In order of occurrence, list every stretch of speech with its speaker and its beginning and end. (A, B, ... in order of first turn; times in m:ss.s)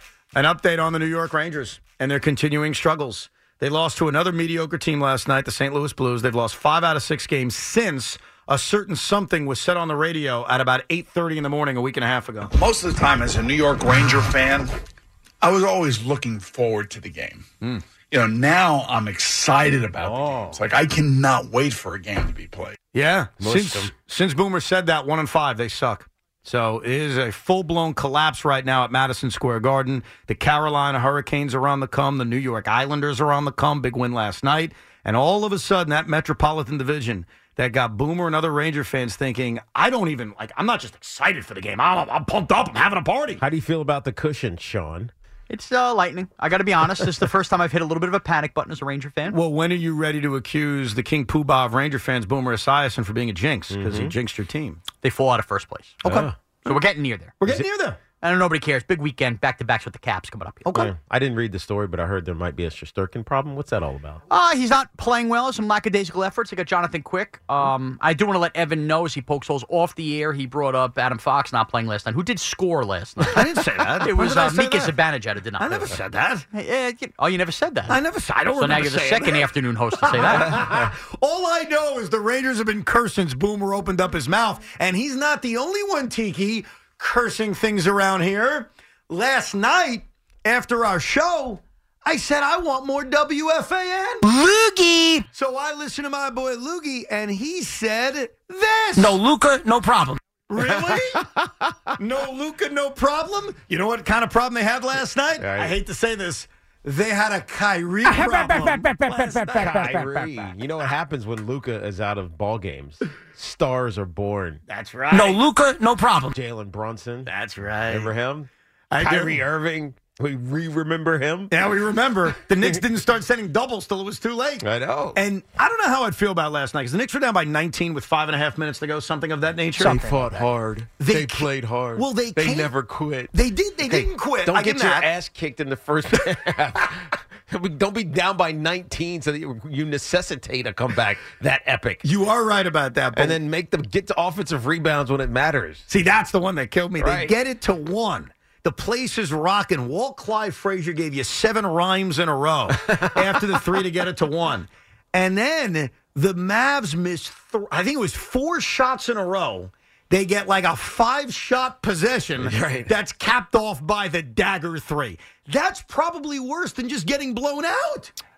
0:00.3-0:12.5 A
0:12.5-0:14.7 B
0:15.4-0:17.4 B
0:18.1-0:22.8 B
0:20.0-0:20.6 A
0:22.9-0:43.4 A
0:23.4-0:23.9 C
0:43.4-0:45.1 C
0:45.5-0:49.4 D
0:49.3-0:54.8 A
0:53.7-0:54.1 C
0:55.0-0:57.3 D
0:56.0-0:56.3 C
0:57.4-0:58.0 A
0:58.2-1:00.8 D
1:00.7-1:04.2 C
1:04.3-1:16.0 D
1:13.3-1:14.9 A
1:15.6-1:16.4 A
1:16.5-1:18.0 D
1:17.9-1:19.5 A
1:18.5-1:20.6 D
1:20.0-1:34.3 A
1:34.2-1:35.2 E
1:35.3-1:39.2 A
1:39.0-1:40.2 E
1:40.5-1:41.3 A
1:40.6-1:41.0 C
1:41.9-1:49.6 A
1:45.4-1:45.8 C
1:48.1-1:50.5 E
1:49.4-1:54.6 C
1:54.7-1:55.4 A
1:55.1-1:56.4 E
1:56.3-1:57.3 C
1:57.2-1:58.1 A
1:57.9-1:58.5 C
1:58.9-1:59.4 A
1:59.0-2:01.5 C
2:01.5-2:10.1 A
2:04.6-2:05.2 C
2:09.8-2:10.5 E
2:09.8-2:22.0 C
2:11.0-2:12.7 A
2:13.3-2:15.1 A
2:22.0-2:23.4 A
2:23.2-2:25.9 C
2:25.9-2:48.1 A
2:27.0-2:27.3 C
2:42.4-2:42.9 C